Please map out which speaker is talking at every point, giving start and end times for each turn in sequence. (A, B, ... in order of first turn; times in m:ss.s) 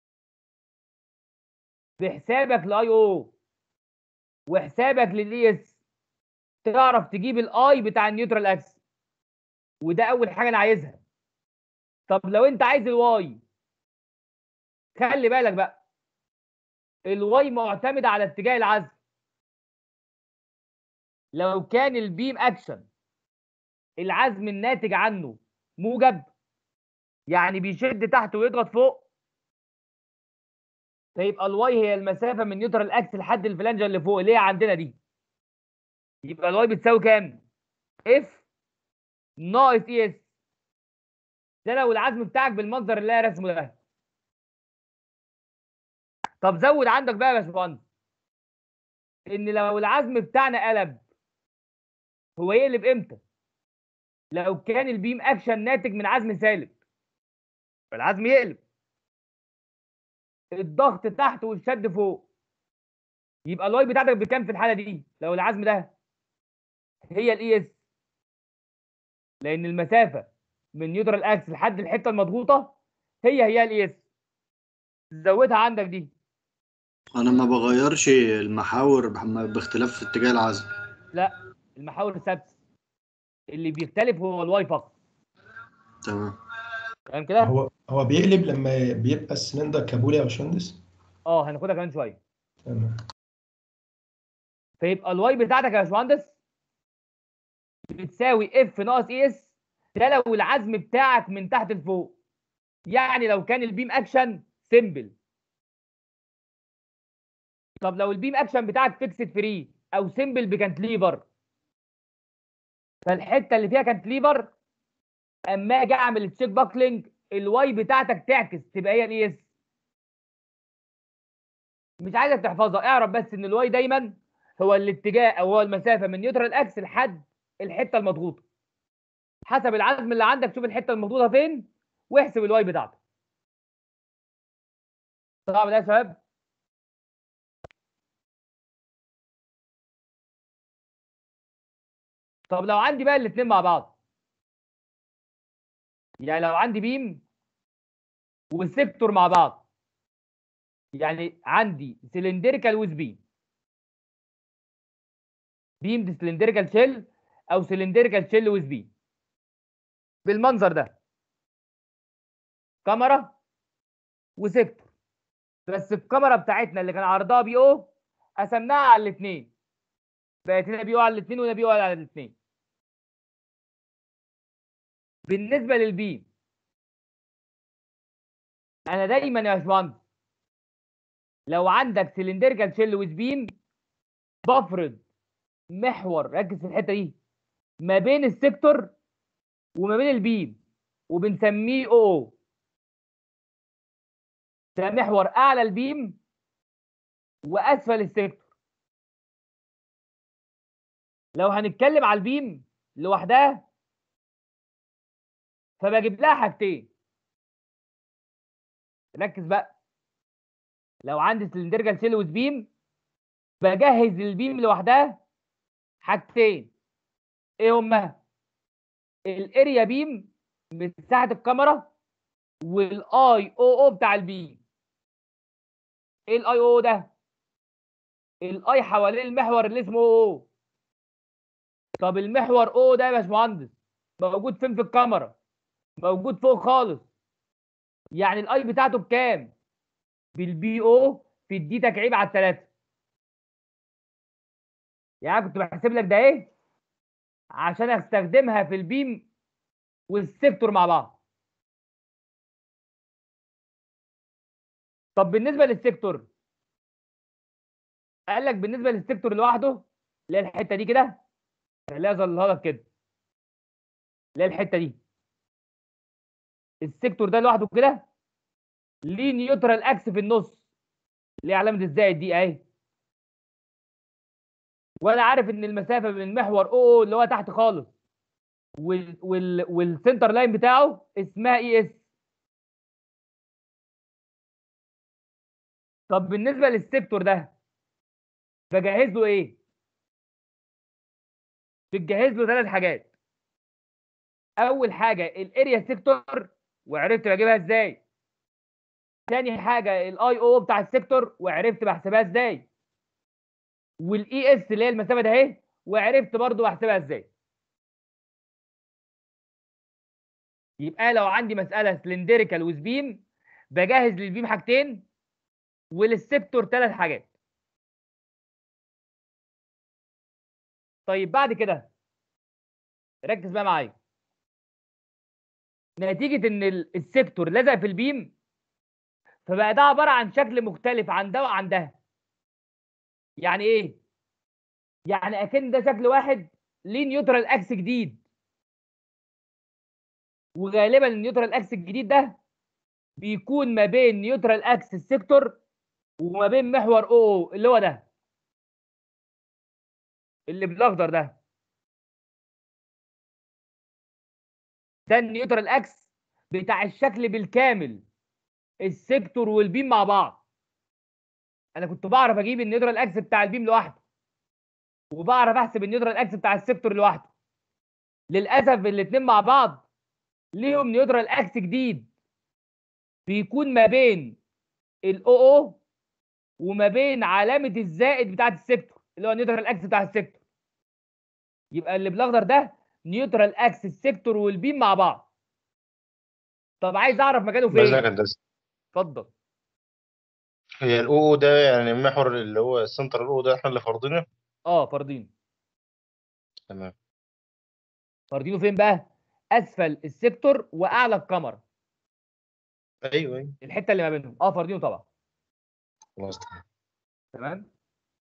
0:02.0-0:03.3 A
0:04.5-0:05.7 A
0:06.6-0:08.7 A
0:09.8-0:11.0 A
0:12.1-0:13.4 A
0:15.0-0:15.8 A
0:17.1-0:18.9 A
0:21.4-0:22.8 A
0:24.0-0:26.3 A
0:27.3-0:29.0 A
0:31.2-0:34.9 A
0:36.3-0:37.4 A
0:38.1-0:38.4 A
0:39.4-0:40.2 A
0:41.6-0:43.7 A
0:46.4-0:47.8 A
0:49.3-0:51.0 A
0:52.4-0:53.2 A
0:54.3-0:56.7 A
0:57.9-0:58.6 A
1:00.6-1:02.2 A
1:03.5-1:05.9 A
1:07.1-1:07.7 A
1:09.4-1:12.7 A
1:13.2-1:14.0 A
1:15.2-1:16.1 A
1:17.1-1:20.6 B
1:21.1-1:22.5 A
1:23.5-1:24.9 A
1:26.0-1:26.4 B
1:27.1-1:27.5 A
1:27.4-1:30.8 C
1:31.3-1:32.2 A
1:32.7-1:33.0 C
1:34.8-1:36.3 A
1:37.9-1:39.4 A
1:40.0-1:42.1 A
1:42.9-1:45.1 A
1:47.8-1:51.2 A
1:53.1-1:54.5 A
1:55.5-1:59.4 A
2:02.0-2:08.4 A
2:09.5-2:13.0 A
2:15.5-2:16.2 A
2:22.5-2:23.9 A
2:26.2-2:27.2 A
2:28.5-2:29.6 A
2:31.0-2:33.2 A
2:35.8-2:38.9 A
2:40.3-2:40.9 A
2:42.9-2:43.3 A
2:44.4-2:44.8 A
2:45.7-2:47.9 A
2:48.4-2:49.5 A
2:50.5-2:52.3 A
2:55.3-2:56.2 A
2:58.9-3:00.0 A
3:01.5-3:03.5 A
3:04.5-3:05.0 A
3:05.7-3:07.1 A
3:07.8-3:08.9 A
3:09.8-3:10.6 A
3:11.1-3:12.3 A
3:14.8-3:16.2 A
3:17.5-3:18.4 A
3:21.4-3:23.6 A
3:25.8-3:26.9 A
3:29.2-3:29.7 A
3:31.0-3:32.7 A
3:33.6-3:35.2 A
3:36.0-3:36.7 A
3:37.6-3:38.1 A
3:39.3-3:41.9 A
3:42.6-3:44.6 A
3:46.3-3:47.1 A
3:48.4-3:50.4 A
3:52.0-3:55.3 A
3:56.0-3:57.0 A
3:58.2-3:59.5 A
4:00.4-4:02.6 A
4:05.2-4:06.5 A
4:07.6-4:09.2 A
4:10.1-4:11.1 A
4:15.2-4:16.3 A
4:18.3-4:21.2 A
4:21.9-4:22.8 A
4:24.4-4:24.9 A
4:26.8-4:28.0 A
4:29.0-4:30.6 A
4:31.4-4:32.6 A
4:35.0-4:37.9 A
4:38.8-4:42.0 A
4:46.1-4:47.5 A
4:48.7-4:49.6 A
4:51.9-4:53.0 A
4:54.6-4:58.0 A
4:59.3-5:02.6 A
5:04.0-5:07.3 A
5:10.8-5:13.2 A
5:13.7-5:15.0 A
5:15.9-5:17.2 A
5:21.1-5:21.9 A
5:23.3-5:23.9 A
5:26.0-5:28.3 A
5:29.4-5:31.9 A
5:33.4-5:34.0 A
5:35.1-5:38.2 A
5:40.6-5:42.4 A
5:43.2-5:45.6 A
5:46.2-5:48.0 A
5:50.5-5:51.3 A
5:55.1-5:56.0 A
5:56.5-5:58.0 A
5:58.8-6:00.4 A
6:01.8-6:04.0 A
6:05.1-6:07.3 A
6:08.3-6:09.8 A
6:10.6-6:12.1 A
6:13.3-6:14.4 A
6:15.0-6:15.8 A
6:16.6-6:20.4 A
6:21.7-6:25.3 A
6:26.8-6:28.0 A
6:27.7-6:28.4 D
6:29.0-6:29.3 A
6:30.8-6:34.2 D
6:34.7-6:35.3 A
6:38.3-6:41.6 A
6:43.1-6:43.5 D
6:43.6-6:45.0 A
6:46.2-6:46.6 D
6:47.4-6:47.6 A